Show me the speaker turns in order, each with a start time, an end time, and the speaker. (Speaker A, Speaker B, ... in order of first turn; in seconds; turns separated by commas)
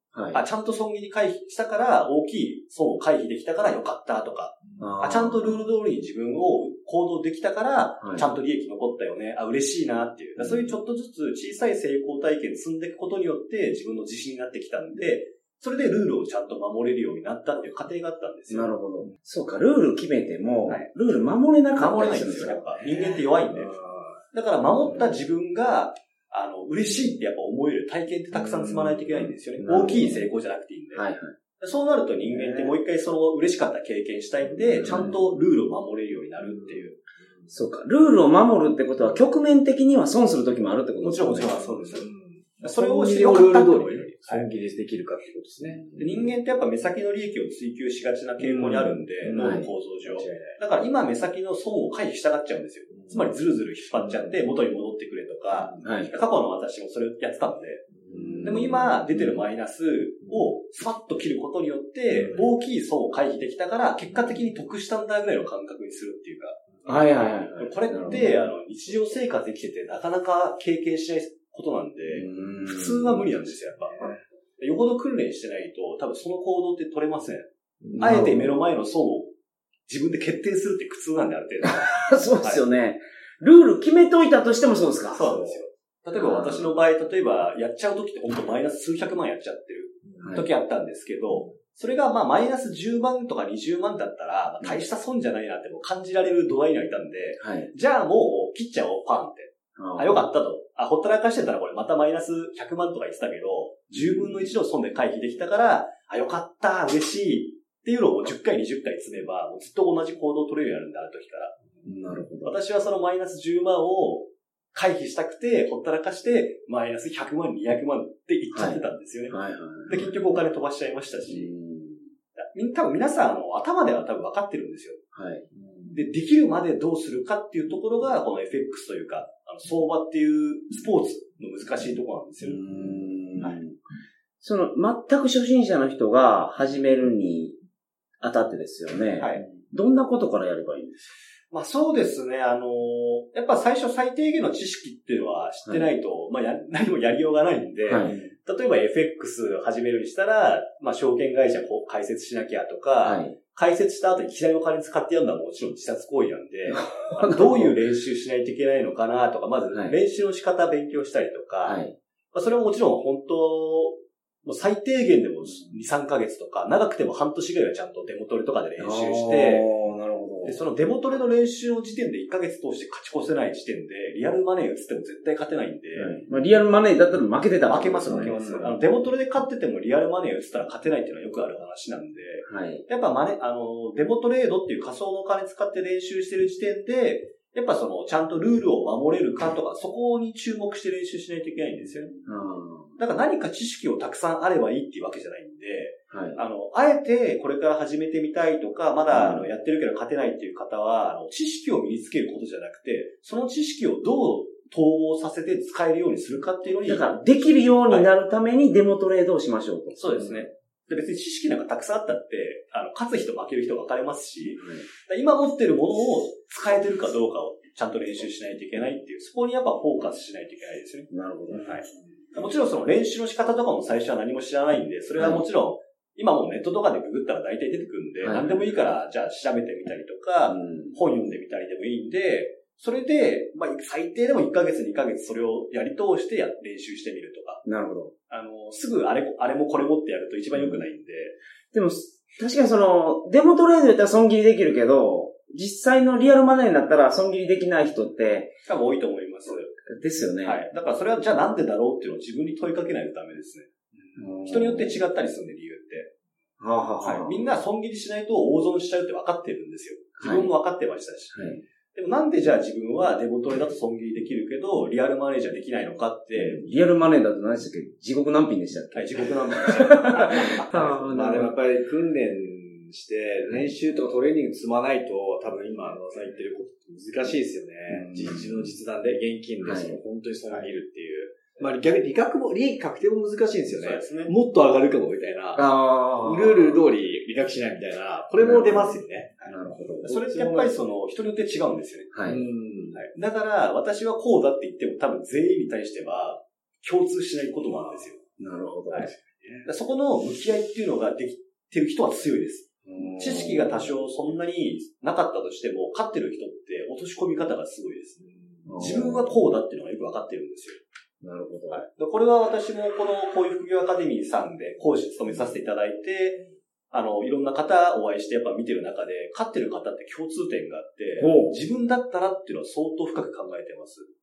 Speaker A: 0.1-0.4, Speaker B: 0.3-18.7, Speaker A: 4.8-5.6, Speaker A: 8.0-8.3, Speaker A: 10.4-10.6, Speaker A: 18.5-22.6, Speaker B: 21.8-23.8, Speaker C: 22.8-24.2, Speaker B: 24.3-31.0, Speaker C: 28.3-29.3, Speaker A: 29.6-30.2, Speaker A: 30.9-31.3, Speaker B: 31.6-36.9, Speaker C: 32.2-32.7, Speaker C: 34.5-35.2, Speaker A: 34.8-35.1, Speaker C: 36.4-37.5, Speaker A: 37.5-41.6, Speaker B: 41.0-42.0, Speaker C: 41.6-46.2, Speaker B: 42.6-44.5, Speaker A: 45.7-46.0, Speaker B: 46.0-57.8, Speaker C: 48.4-50.6, Speaker A: 49.3-49.7, Speaker C: 52.9-53.4, Speaker C: 53.9-54.4, Speaker C: 55.5-55.9, Speaker A: 55.8-56.2, Speaker C: 57.9-59.4, Speaker A: 58.1-58.8, Speaker B: 58.4-66.9, Speaker C: 62.1-62.4, Speaker C: 64.1-64.4, Speaker A: 66.8-68.4, Speaker B: 67.6-74.1, Speaker A: 72.1-73.2, Speaker B: 74.6-77.5, Speaker C: 77.8-78.3, Speaker A: 78.0-78.5, Speaker B: 78.0-79.3, Speaker B: 79.9-82.6, Speaker A: 81.6-85.5, Speaker B: 85.1-111.5, Speaker A: 86.2-86.8, Speaker C: 90.0-90.3, Speaker A: 90.2-90.5, Speaker A: 97.4-97.7, Speaker A: 99.8-100.2, Speaker A: 111.8-112.5, Speaker B: 112.4-119.3, Speaker A: 118.5-120.2, Speaker B: 119.9-121.5, Speaker A: 121.3-122.1, Speaker B: 122.5-125.0, Speaker A: 125.1-125.4, Speaker C: 125.5-126.0, Speaker B: 125.9-132.6, Speaker A: 132.4-133.8, Speaker A: 134.4-137.5, Speaker A: 138.2-141.1, Speaker B: 141.5-161.8, Speaker A: 147.8-148.3, Speaker A: 153.0-153.3, Speaker A: 156.7-157.8, Speaker A: 161.6-161.9, Speaker B: 162.3-169.7, Speaker A: 168.8-170.6, Speaker B: 170.4-176.2, Speaker A: 175.9-178.6, Speaker B: 177.7-192.1, Speaker C: 178.1-178.7, Speaker A: 182.4-182.8, Speaker A: 192.2-193.0, Speaker B: 193.0-207.1, Speaker A: 196.1-196.4, Speaker A: 199.1-199.5, Speaker A: 206.8-210.4, Speaker B: 209.9-237.6, Speaker A: 214.6-214.8, Speaker A: 221.1-221.7, Speaker A: 225.2-225.4, Speaker A: 228.2-228.7, Speaker A: 230.5-231.0, Speaker A: 237.6-238.1, Speaker B: 238.3-241.3, Speaker A: 241.7-248.6, Speaker B: 248.7-249.7, Speaker A: 249.9-250.6, Speaker B: 250.4-253.7, Speaker A: 254.2-255.0, Speaker B: 254.4-256.1, Speaker A: 256.6-257.4, Speaker B: 257.0-266.6, Speaker A: 260.2-260.5, Speaker A: 261.3-261.6, Speaker A: 266.4-271.5, Speaker B: 268.9-270.9, Speaker C: 270.7-289.4, Speaker A: 277.9-278.6, Speaker A: 279.6-280.0, Speaker B: 283.7-284.3, Speaker A: 285.6-286.8, Speaker A: 288.4-290.1, Speaker C: 290.0-290.7, Speaker B: 290.0-292.1, Speaker A: 292.1-292.4, Speaker C: 292.2-293.0, Speaker B: 292.9-298.1, Speaker A: 298.4-299.1, Speaker C: 299.0-299.7, Speaker B: 299.6-308.2, Speaker A: 302.9-303.8, Speaker C: 308.2-308.8, Speaker A: 308.7-309.3, Speaker B: 308.8-310.8, Speaker A: 311.2-311.8, Speaker B: 311.7-324.1, Speaker A: 321.2-321.6